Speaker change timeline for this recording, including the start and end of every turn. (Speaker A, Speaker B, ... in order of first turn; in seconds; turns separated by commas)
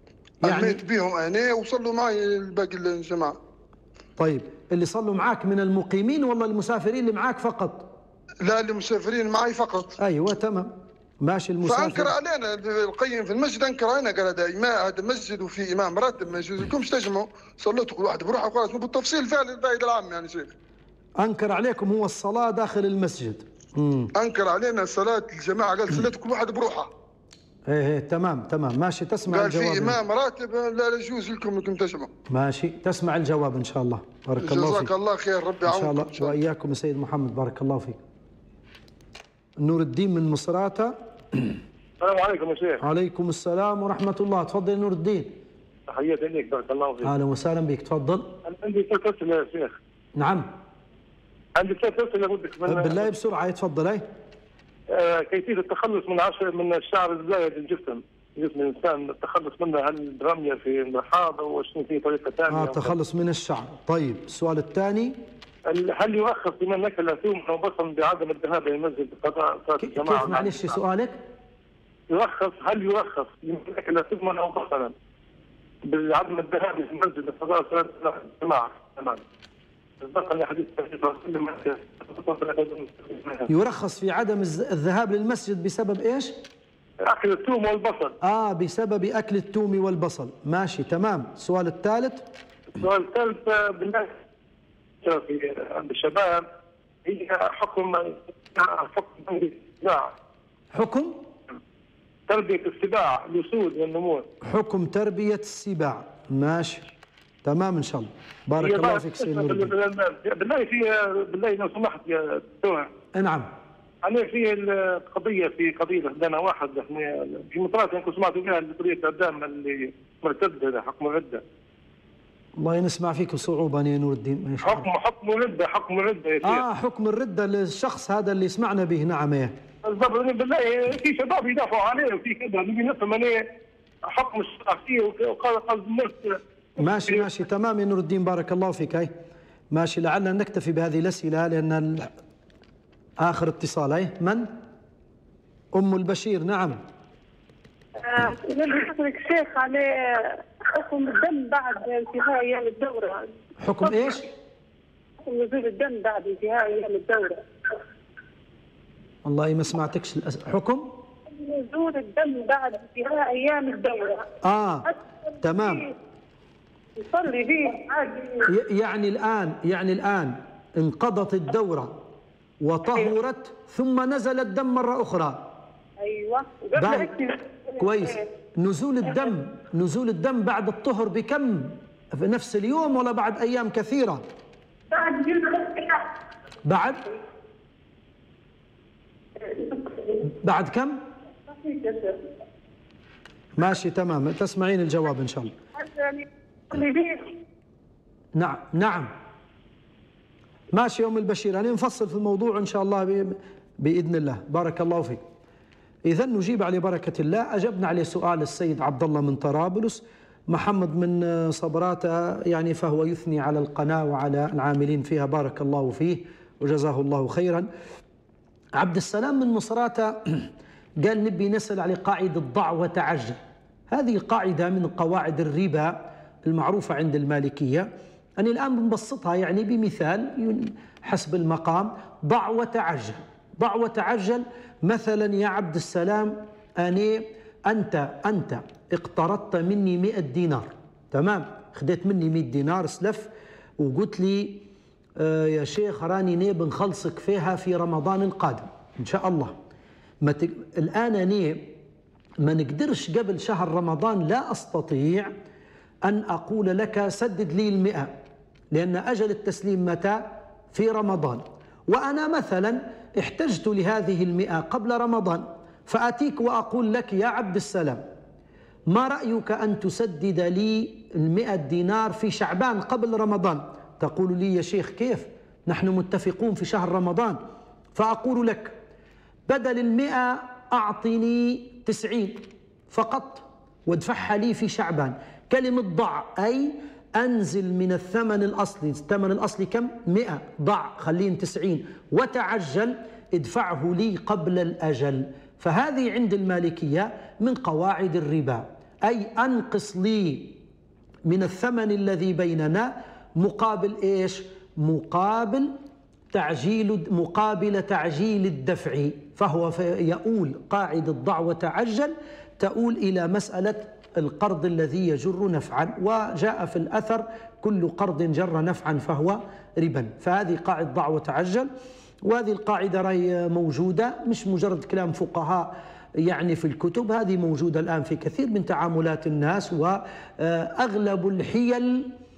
Speaker A: 0.4-0.8, Speaker B: 0.4-3.4, Speaker A: 4.2-7.9, Speaker B: 8.4-10.0, Speaker A: 10.0-12.1, Speaker B: 11.6-20.5, Speaker A: 21.2-24.1, Speaker B: 24.2-26.9, Speaker A: 27.7-30.0, Speaker B: 29.3-32.1, Speaker A: 32.3-34.9, Speaker B: 34.4-36.3, Speaker A: 35.7-38.0, Speaker A: 39.6-41.5, Speaker C: 42.0-42.8, Speaker A: 42.8-45.4, Speaker C: 45.9-47.1, Speaker A: 47.0-48.3, Speaker C: 48.5-49.8, Speaker A: 50.2-50.5, Speaker C: 51.6-53.1, Speaker A: 52.6-54.0, Speaker C: 54.9-63.0, Speaker A: 62.5-65.2, Speaker C: 65.7-70.7, Speaker A: 69.8-71.2, Speaker C: 72.1-74.9, Speaker C: 75.9-79.2, Speaker C: 80.0-83.5, Speaker A: 83.5-86.4, Speaker C: 87.0-88.2, Speaker A: 88.2-92.2, Speaker C: 92.8-94.1, Speaker C: 95.0-96.4, Speaker C: 97.0-100.1, Speaker A: 100.7-101.2, Speaker C: 102.3-104.3, Speaker A: 104.4-106.9, Speaker A: 107.4-109.7, Speaker C: 108.6-112.9, Speaker A: 113.2-113.5, Speaker C: 114.0-121.4, Speaker A: 122.6-124.9, Speaker C: 124.6-126.7, Speaker A: 126.4-129.5, Speaker C: 129.8-133.4, Speaker C: 134.1-137.3, Speaker A: 136.8-139.1, Speaker A: 139.7-142.1, Speaker A: 143.2-144.5, Speaker A: 145.7-146.8, Speaker D: 148.0-153.3, Speaker A: 153.6-154.3, Speaker D: 155.2-157.4, Speaker A: 159.2-160.9, Speaker D: 161.3-164.3, Speaker A: 164.4-164.9, Speaker A: 165.4-165.9, Speaker D: 165.5-165.9, Speaker D: 167.0-168.5, Speaker A: 168.5-172.0, Speaker A: 172.6-175.5, Speaker D: 176.0-178.2, Speaker A: 176.8-177.1, Speaker A: 177.8-184.2, Speaker D: 184.9-186.1, Speaker A: 186.7-187.0, Speaker D: 189.4-190.2, Speaker A: 190.4-191.0, Speaker D: 191.5-192.3, Speaker A: 193.6-195.5, Speaker D: 195.8-197.4, Speaker A: 198.3-199.1, Speaker A: 200.7-205.2, Speaker A: 206.1-217.7, Speaker A: 218.8-220.5, Speaker A: 221.0-244.7, Speaker A: 245.2-249.5, Speaker A: 250.2-251.7, Speaker A: 252.4-255.3, Speaker A: 256.1-258.1, Speaker A: 258.7-260.2, Speaker A: 260.7-268.0, Speaker A: 268.9-277.4, Speaker A: 277.9-278.8, Speaker A: 279.5-300.6, Speaker A: 301.3-305.7, Speaker A: 306.3-321.7, Speaker A: 322.2-332.1